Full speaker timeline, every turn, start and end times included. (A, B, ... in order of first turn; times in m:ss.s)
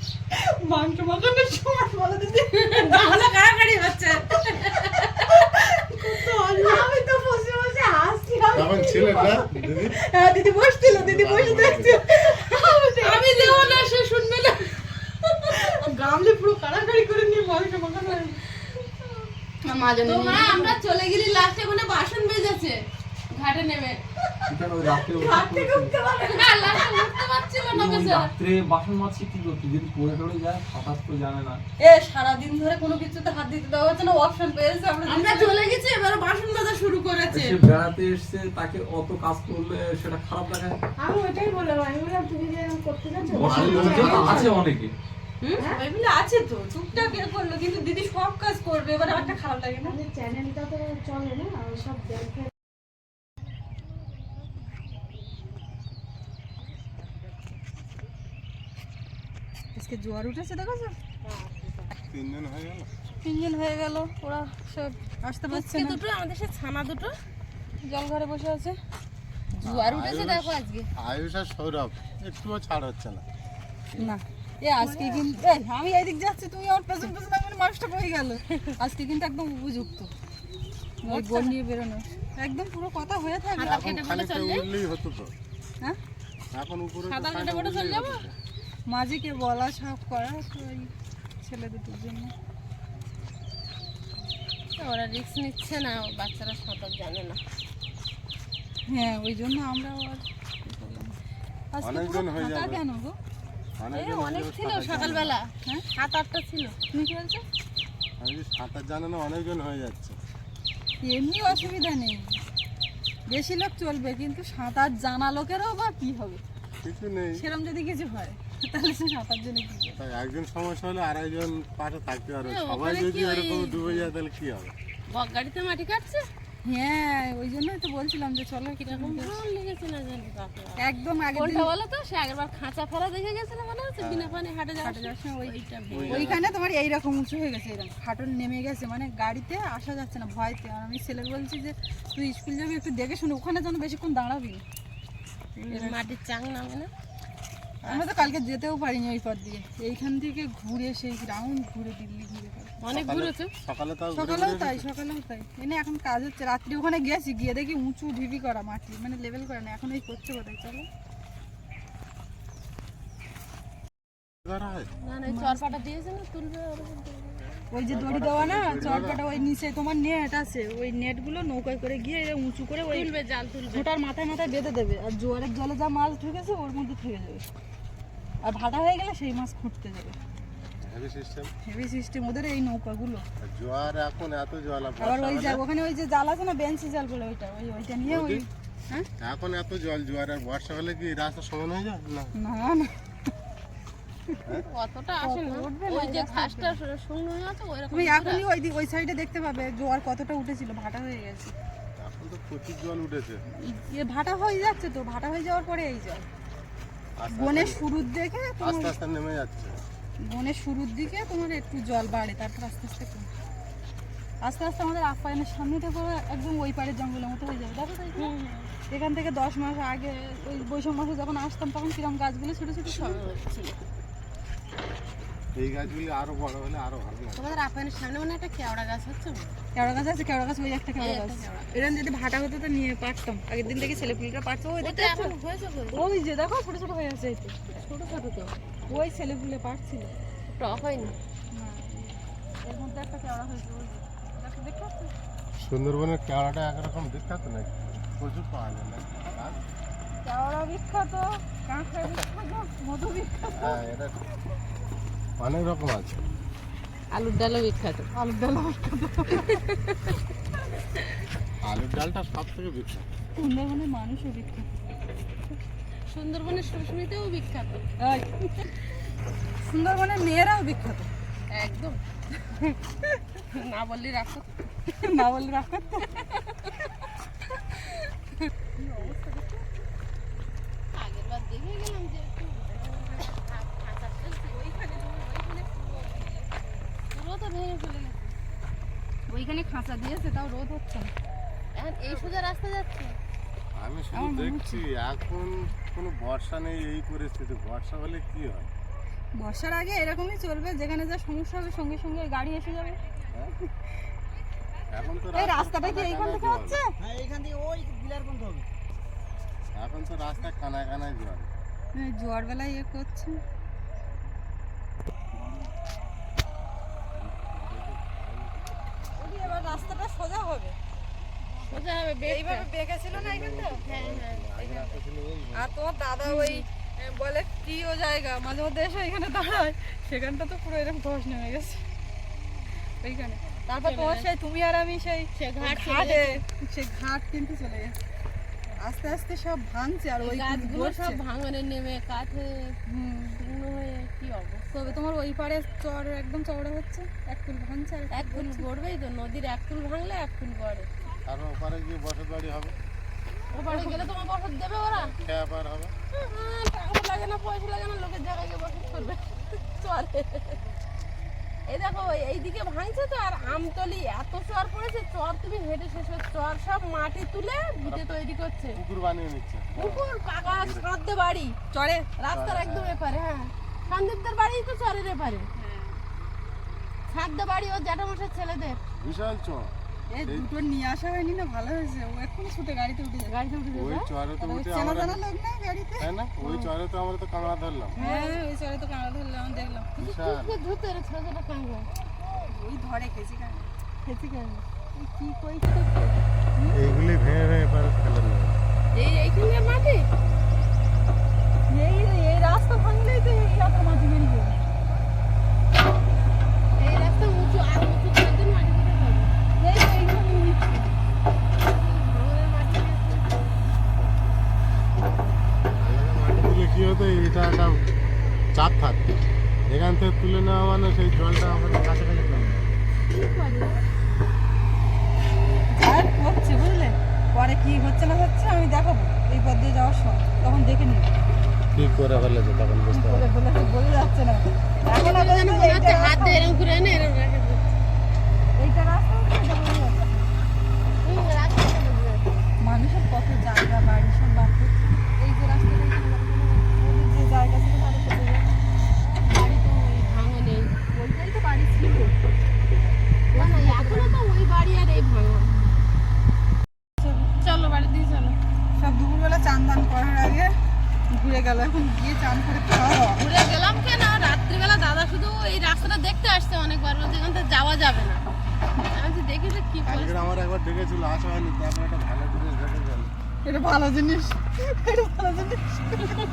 0:00.3-0:02.9 A
0:02.6-0:05.4 B
0:05.4-0:09.4 C
0:08.5-0:10.0 D
0:10.1-0:13.9 C
0:10.8-0:12.0 D
0:13.0-0:15.8 B
0:17.8-0:18.2 C
0:18.1-0:18.9 B
0:19.6-0:20.7 A
0:20.0-0:22.8 B
0:23.3-0:24.0 B
0:24.5-0:26.0 E
0:25.0-0:26.8 C
0:26.3-0:28.3 B
0:27.7-0:31.6 E
0:31.8-0:35.5 A
0:35.1-0:37.6 B
0:37.3-0:40.8 E
0:41.0-0:44.4 C
0:43.3-0:44.9 E
0:43.4-0:44.4 D
0:43.6-0:44.5 A
0:45.6-0:50.0 A
0:49.8-0:52.5 C
0:59.8-1:01.0 A
1:01.2-1:01.9 B
1:02.1-1:02.9 D
1:03.2-1:06.0 A
1:05.5-1:07.1 B
1:07.8-1:08.8 A
1:09.6-1:13.2 D
1:09.7-1:10.9 B
1:14.0-1:20.1 A
1:14.8-1:15.3 B
1:21.0-1:23.8 A
1:21.1-1:21.6 B
1:23.6-1:24.7 B
1:23.6-1:25.3 D
1:26.5-1:28.3 D
1:27.1-1:28.2 B
1:28.9-1:30.9 A
1:31.4-1:32.3 A
1:34.8-1:37.4 B
1:38.9-1:41.1 A
1:41.7-1:43.2 A
1:41.8-1:42.8 D
1:43.8-1:45.3 D
1:43.9-1:46.8 B
1:46.9-1:47.4 A
1:48.2-1:50.2 D
1:51.0-1:52.4 A
1:53.3-1:56.4 A
1:56.8-1:57.4 D
1:57.4-2:00.0 A
2:00.0-2:04.7 D
2:02.4-2:04.1 B
2:05.1-2:06.2 B
2:06.6-2:09.4 A
2:08.8-2:10.8 B
2:10.8-2:11.7 A
2:11.3-2:16.3 B
2:14.0-2:14.4 D
2:14.8-2:15.5 A
2:15.9-2:16.5 D
2:16.1-2:24.6 A
2:25.6-2:26.9 B
2:25.7-2:26.1 A
2:27.8-2:32.7 A
2:27.9-2:28.3 B
2:32.8-2:33.5 B
2:32.9-2:34.8 D
2:34.1-2:40.9 A
2:44.4-2:44.9 D
2:45.0-2:47.6 B
2:45.3-2:45.8 A
2:47.7-2:53.1 A
2:47.9-2:49.2 D
2:48.8-2:49.5 B
2:52.9-2:53.9 B
2:53.7-2:57.4 A
2:58.4-3:00.2 A
3:00.8-3:01.5 D
3:01.7-3:03.2 A
3:03.4-3:05.6 D
3:05.0-3:09.0 A
3:08.1-3:08.4 D
3:09.2-3:12.3 D
3:12.4-3:12.9 A
3:14.6-3:18.4 B
3:15.2-3:16.8 A
3:17.9-3:21.5 A
3:22.0-3:23.4 D
3:23.6-3:26.2 A
3:27.2-3:27.8 D
3:27.3-3:28.9 A
3:28.6-3:29.8 D
3:30.3-3:33.3 A
3:34.4-3:38.3 A
3:38.2-3:38.7 B
3:38.9-3:43.2 A
3:42.9-3:43.8 B
3:45.6-3:47.5 D
3:47.4-3:49.5 B
3:49.8-3:55.3 A
3:51.0-3:51.7 B
3:54.8-3:56.0 B
3:55.9-3:57.6 A
3:57.7-3:58.5 B
3:58.9-4:00.1 A
4:00.5-4:01.2 B
4:01.5-4:05.1 A
4:05.6-4:09.6 D
4:10.2-4:13.8 A
4:13.6-4:14.2 D
4:15.4-4:16.2 D
4:17.1-4:18.1 B
4:18.1-4:19.6 A
4:21.7-4:23.1 D
4:23.4-4:24.7 A
4:26.1-4:27.8 B
4:28.0-4:28.3 A
4:29.6-4:31.1 A
4:31.6-4:32.0 B
4:33.5-4:34.9 B
4:35.0-4:36.0 A
4:38.8-4:39.6 A
4:40.9-4:44.6 B
4:44.5-4:46.6 A
4:47.1-4:48.3 B
4:49.3-4:51.1 A
4:51.8-4:53.2 B
4:53.8-4:58.7 D
4:54.1-4:54.8 A
4:59.4-5:03.0 A
5:04.9-5:06.8 D
5:05.4-5:06.9 A
5:09.8-5:11.5 D
5:11.9-5:13.4 A
5:17.2-5:18.6 D
5:19.2-5:20.8 A
5:21.7-5:22.7 B
5:22.3-5:23.8 A
5:23.1-5:25.7 D
5:23.8-5:25.0 B
5:25.6-5:31.8 A
5:26.2-5:26.6 B
5:33.0-5:38.0 A
5:33.8-5:34.3 B
5:35.4-5:36.4 B
5:38.8-5:41.2 A
5:40.2-5:42.8 B
5:42.9-5:43.4 A
5:43.4-5:44.6 B
5:44.7-5:48.6 A
5:48.1-5:50.9 B
5:51.3-5:52.8 D
5:53.5-5:55.1 B
5:53.7-5:54.0 A
5:55.1-5:55.9 D
5:56.2-6:00.6 B
6:01.7-6:08.8 B
6:08.7-6:10.9 D
6:09.8-6:11.6 B
6:11.7-6:12.1 A
6:12.2-6:15.5 B
6:12.3-6:13.0 D
6:17.1-6:18.8 B
6:19.0-6:19.8 D
6:20.1-6:23.4 A
6:23.3-6:24.1 B
6:23.7-6:25.2 D
6:24.4-6:26.1 A
6:26.0-6:28.0 D
6:26.4-6:26.7 B
6:28.0-6:28.4 B
6:28.0-6:29.9 A
6:30.0-6:30.6 D
6:30.0-6:31.9 B
6:32.4-6:36.8 A
6:36.7-6:38.6 D
6:38.9-6:40.1 B
6:40.2-6:40.6 D
6:41.7-6:44.7 A
6:46.8-6:49.3 B
6:49.6-6:50.9 A
6:51.6-6:53.4 B
6:55.8-6:57.8 D
6:58.5-6:59.2 D
6:59.7-7:02.8 D
7:03.1-7:03.7 B
7:05.7-7:11.1 A
7:11.7-7:13.3 D
7:12.9-7:16.7 A
7:14.8-7:17.7 B
7:18.6-7:20.3 A
7:21.0-7:22.2 B
7:22.6-7:28.4 A
7:29.3-7:30.7 B
7:30.9-7:32.2 A
7:33.3-7:35.9 B
7:33.4-7:34.2 A
7:37.4-7:38.4 B
7:38.8-7:40.5 A
7:41.1-7:43.2 A
7:43.2-7:48.2 B
7:48.9-7:50.1 B
7:49.8-7:53.1 D
7:53.4-7:56.2 A